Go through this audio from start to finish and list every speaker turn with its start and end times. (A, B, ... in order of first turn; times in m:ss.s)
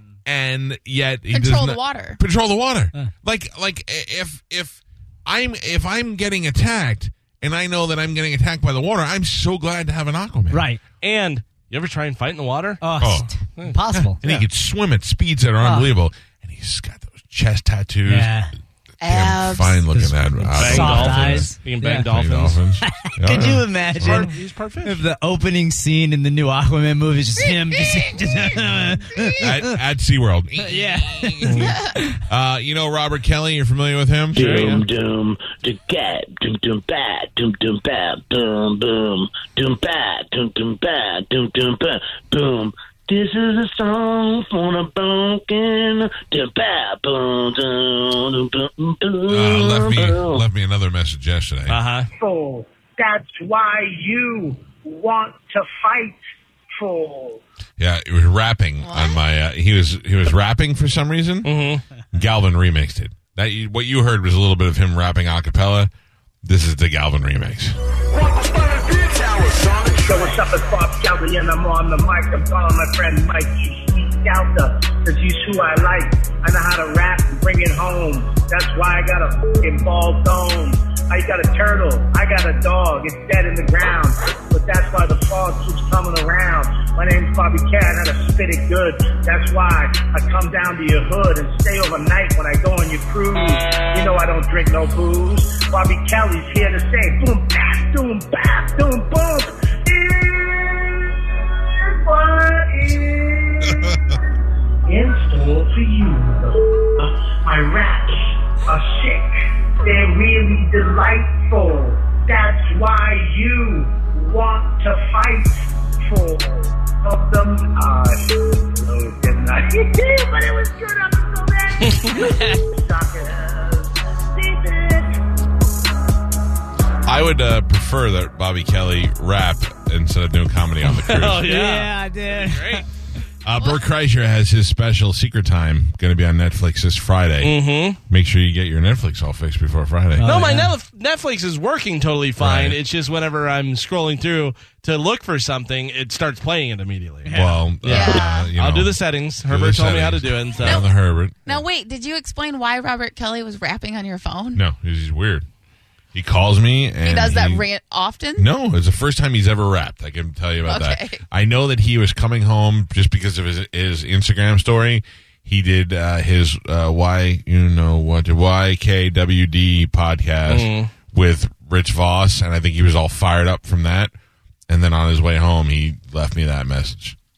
0:00.2-0:10.6 A
0:01.3-0:02.2 B
0:10.5-0:10.8 C
0:11.0-0:13.8 D
0:12.8-0:14.4 C
0:13.0-0:13.3 A
0:13.9-0:18.3 A
0:15.6-0:15.9 C
0:18.0-0:18.5 C
0:19.0-0:19.8 B
0:19.0-0:24.3 A
0:19.9-0:22.1 C
0:20.5-0:22.6 D
0:22.8-0:24.3 C
0:24.0-0:25.0 D
0:24.8-0:29.8 C
0:29.4-0:31.7 A
0:30.6-0:32.2 C
0:31.6-0:31.9 B
0:32.3-0:34.8 A
0:34.3-0:50.4 E
0:34.4-0:34.8 D
0:49.2-0:51.8 A
0:51.7-0:52.1 D
0:52.2-0:56.2 F
0:56.8-0:57.4 F
0:57.8-1:01.5 A
0:58.8-0:59.2 B
1:01.4-1:01.8 D
1:02.1-1:05.9 A
1:06.4-1:07.8 A
1:09.5-1:44.0 F
1:43.7-1:44.2 A
1:44.9-2:05.2 F
2:01.8-2:02.2 D
2:07.0-2:11.4 A
2:10.8-2:12.8 D
2:11.4-2:12.8 C
2:13.4-2:20.3 A
2:17.4-2:18.0 D
2:20.2-2:20.7 C
2:20.2-2:30.8 D
2:22.4-2:22.8 A
2:27.2-2:27.6 C
2:27.3-2:31.6 A
2:27.8-2:28.5 B
2:31.4-2:34.6 B
2:34.5-2:35.4 A
2:36.1-2:37.6 A
2:37.0-2:38.5 B
2:38.4-2:54.1 A
2:40.6-2:41.2 B
2:50.5-2:50.9 D
2:54.7-2:57.2 A